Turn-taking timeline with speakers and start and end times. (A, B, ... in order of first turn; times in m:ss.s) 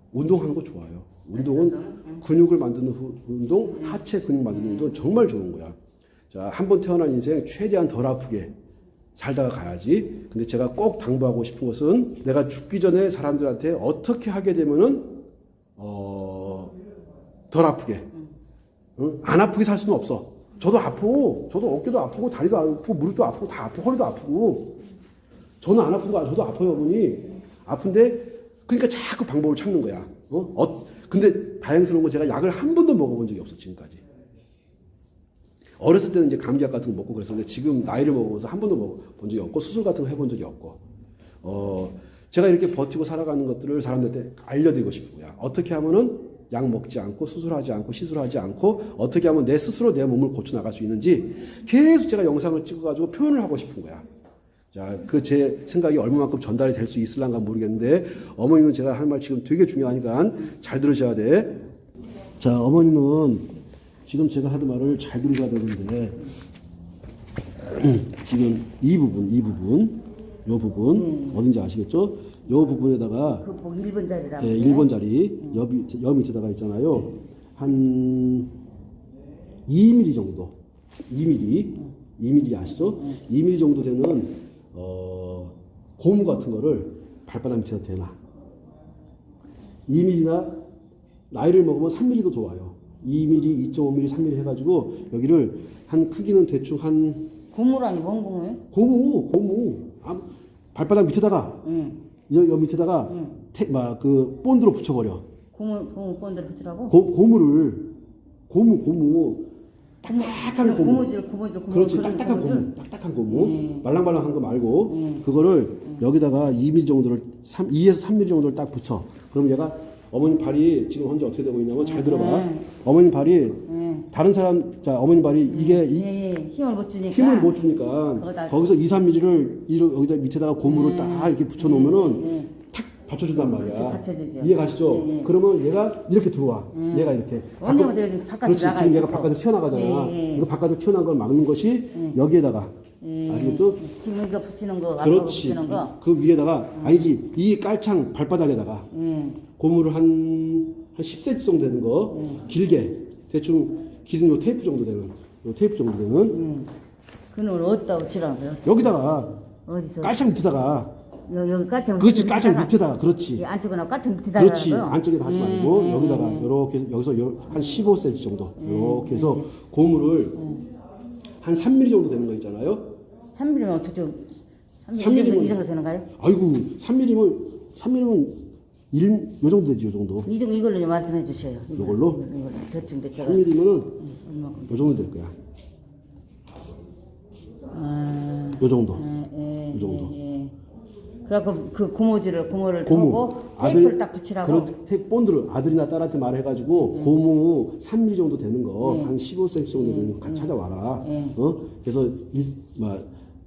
0:00.1-0:05.8 A
0:01.3-0:02.2 B
0:03.6-0:04.0 B
0:04.5-0:05.0 B
0:06.3-0:08.5 A
0:09.2-0:15.2 A
0:15.8-0:16.7 A
0:17.5-0:18.1 A
0:19.0-0:24.8 A
0:25.6-0:34.0 A
0:35.8-0:40.8 A
0:41.4-0:54.0 A
0:54.7-1:01.6 A
1:02.4-1:03.5 A
1:04.1-1:06.3 A
1:07.7-1:13.5 A
1:10.9-1:11.4 B
1:13.3-1:14.9 B
1:14.4-1:18.6 A
1:19.7-1:28.2 A
1:29.9-1:30.6 A
1:31.3-1:37.3 A
1:37.5-1:38.6 B
1:38.7-1:41.6 A
1:41.6-1:42.0 B
1:42.3-1:45.2 A
1:43.1-1:43.4 B
1:45.5-1:47.0 B
1:46.9-1:47.9 A
1:48.5-1:49.5 A
1:50.0-1:51.1 A
1:50.1-1:52.7 B
1:51.7-2:06.1 A
1:53.3-1:53.9 B
1:54.9-1:55.2 B
2:01.8-2:02.7 B
2:03.7-2:04.1 B
2:05.5-2:07.6 B
2:07.1-2:22.7 A
2:08.2-2:08.6 B
2:10.6-2:12.5 B
2:13.5-2:15.3 B
2:16.7-2:20.5 B
2:23.0-2:26.0 B
2:23.3-2:23.8 A
2:25.0-2:28.9 A
2:26.8-2:27.1 B
2:28.9-2:29.4 B
2:29.6-2:36.4 A
2:32.1-2:32.4 B
2:36.3-2:36.7 B
2:37.3-2:39.1 B
2:38.6-2:39.3 A
2:39.7-2:40.2 B
2:40.0-2:40.9 A
2:41.3-2:42.7 B
2:42.0-2:43.4 A
2:43.4-2:46.5 B
2:44.4-2:50.4 A
2:47.5-2:47.8 B
2:48.6-2:49.5 B
2:50.4-2:50.6 B
2:51.4-2:53.0 A
2:53.4-2:54.3 B
2:54.8-2:56.1 B
2:54.9-2:55.6 A
2:56.2-3:00.3 A
3:00.2-3:03.5 B
3:01.8-3:02.2 A
3:03.1-3:04.0 A
3:04.0-3:05.0 B
3:04.7-3:05.3 A
3:07.7-3:10.5 B
3:08.6-3:09.1 A
3:09.7-3:10.1 A
3:11.2-3:14.7 B
3:12.9-3:23.1 A
3:18.8-3:19.1 B
3:19.8-3:21.4 B